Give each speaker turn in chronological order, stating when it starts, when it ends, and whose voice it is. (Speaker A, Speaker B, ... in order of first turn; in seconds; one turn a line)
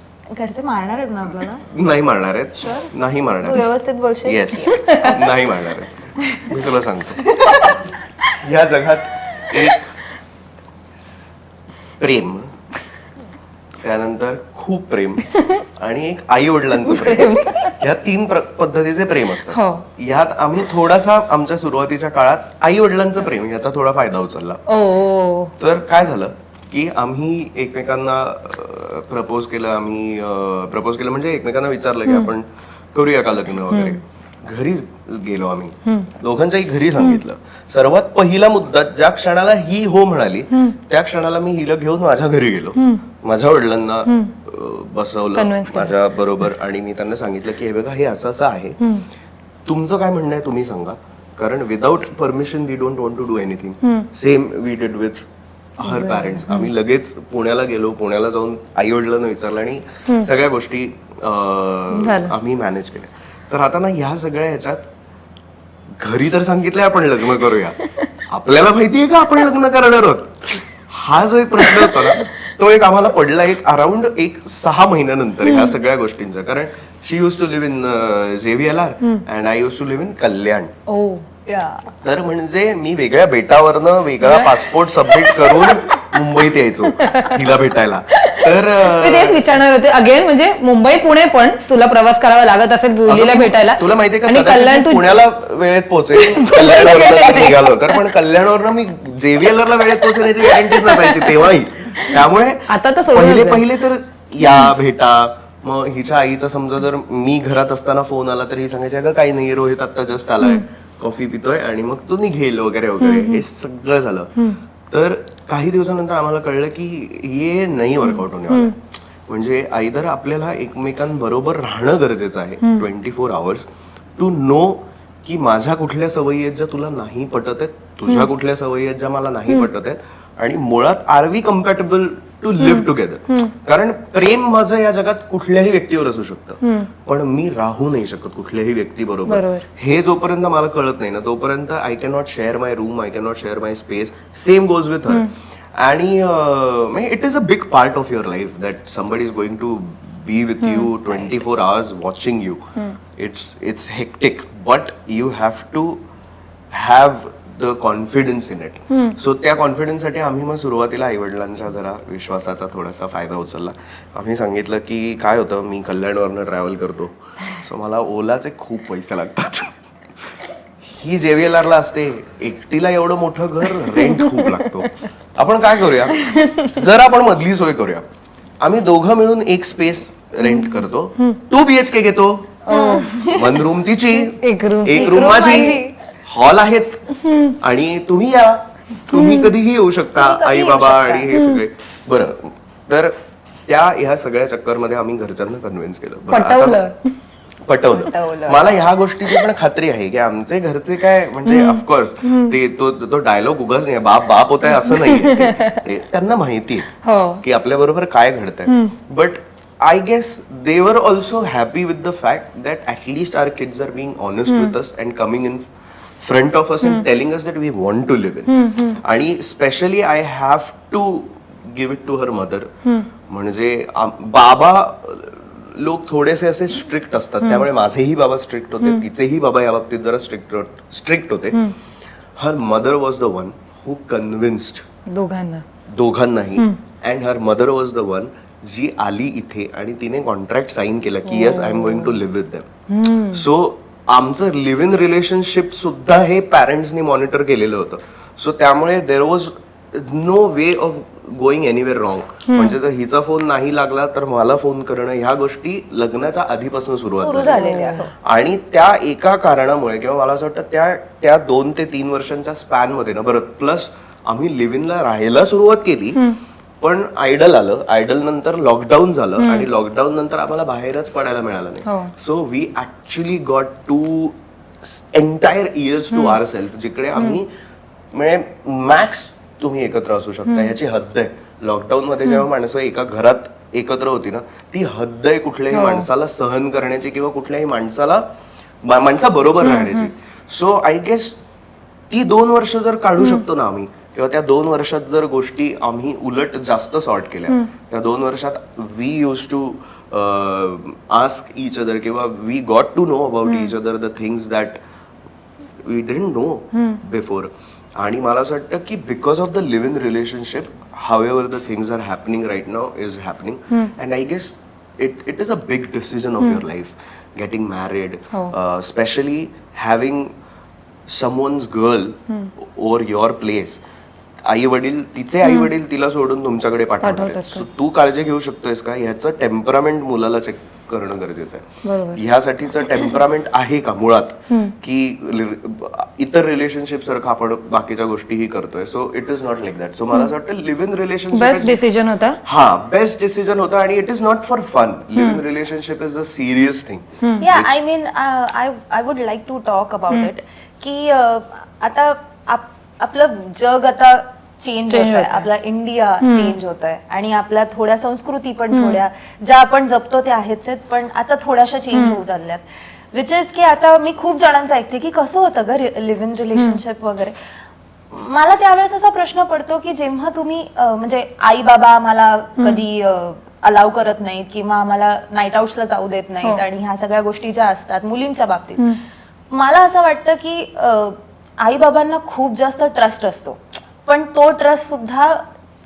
Speaker A: 0.3-1.6
Speaker B: 1.7-3.6
Speaker A: 2.6-2.9
Speaker A: 3.4-5.3
Speaker B: 4.2-7.2
Speaker C: 4.8-5.2
Speaker A: 6.2-6.7
Speaker A: 7.2-7.8
Speaker B: 8.4-9.8
Speaker B: 12.0-12.5
Speaker B: 13.8-24.6
Speaker C: 16.8-17.7
Speaker C: 19.5-19.8
Speaker C: 24.7-25.5
Speaker B: 25.6-48.8
Speaker C: 33.7-34.0
Speaker C: 35.9-36.1
Speaker C: 42.7-43.0
Speaker C: 44.0-44.3
Speaker C: 45.3-46.0
Speaker B: 49.6-55.2
Speaker C: 53.8-54.1
Speaker B: 55.8-64.8
Speaker C: 55.8-56.7
Speaker C: 61.9-62.4
Speaker B: 66.0-67.8
Speaker B: 68.3-80.7
Speaker C: 71.6-72.3
Speaker C: 75.4-75.7
Speaker C: 80.9-81.2
Speaker A: 81.5-81.9
Speaker B: 82.0-89.4
Speaker C: 84.2-86.0
Speaker C: 86.9-87.4
Speaker C: 88.2-95.2
Speaker B: 93.1-123.6
Speaker C: 96.2-98.0
Speaker C: 100.4-101.4
Speaker C: 102.7-103.6
Speaker C: 113.0-113.4
Speaker C: 118.0-118.7
Speaker B: 124.2-152.6
Speaker C: 132.6-133.5
Speaker C: 136.6-136.9
Speaker C: 139.3-139.6
Speaker C: 150.6-150.9
Speaker B: 153.2-156.0
Speaker B: 156.7-169.7
Speaker B: 170.8-178.0
Speaker C: 173.7-174.9
Speaker C: 176.1-176.8
Speaker B: 178.6-182.6
Speaker C: 180.4-181.3
Speaker C: 182.7-183.2
Speaker A: 182.7-183.6
Speaker B: 183.3-193.2
Speaker C: 184.1-185.8
Speaker A: 184.9-185.9
Speaker C: 189.1-189.5
Speaker A: 190.2-191.3
Speaker C: 191.3-191.6
Speaker B: 193.7-196.8
Speaker C: 196.3-197.1
Speaker B: 197.7-206.9
Speaker A: 198.0-198.9
Speaker C: 201.4-202.5
Speaker C: 204.7-205.8
Speaker C: 207.0-207.4
Speaker B: 207.4-215.7
Speaker C: 214.5-214.7
Speaker B: 216.2-222.7
Speaker C: 218.5-219.0
Speaker B: 223.3-231.6
Speaker C: 227.4-227.7
Speaker B: 232.4-234.8
Speaker C: 235.1-235.6
Speaker B: 235.9-242.7
Speaker C: 241.3-242.2
Speaker C: 242.9-243.4
Speaker B: 243.3-266.3
Speaker C: 252.5-252.8
Speaker A: 257.1-258.1
Speaker C: 257.6-258.1
Speaker B: 266.8-277.5
Speaker C: 269.4-269.7
Speaker C: 271.8-272.1
Speaker C: 276.1-276.4
Speaker C: 277.1-277.4
Speaker B: 278.1-288.2
Speaker C: 280.4-280.7
Speaker C: 285.7-286.1
Speaker B: 288.8-291.4
Speaker C: 289.6-290.1
Speaker B: 292.1-304.8
Speaker C: 303.4-303.7
Speaker B: 305.8-320.3
Speaker C: 306.7-307.0
Speaker B: 321.1-323.8
Speaker B: 324.4-341.8
Speaker C: 325.4-325.7
Speaker C: 327.0-327.6
Speaker C: 331.8-332.2
Speaker C: 341.3-342.4
Speaker B: 342.4-347.8
Speaker C: 345.1-345.4
Speaker A: 347.4-367.3
Speaker C: 354.9-355.4
Speaker C: 356.2-356.5
Speaker C: 358.7-359.0
Speaker C: 361.9-362.2
Speaker A: 368.1-378.9
Speaker A: 379.5-385.4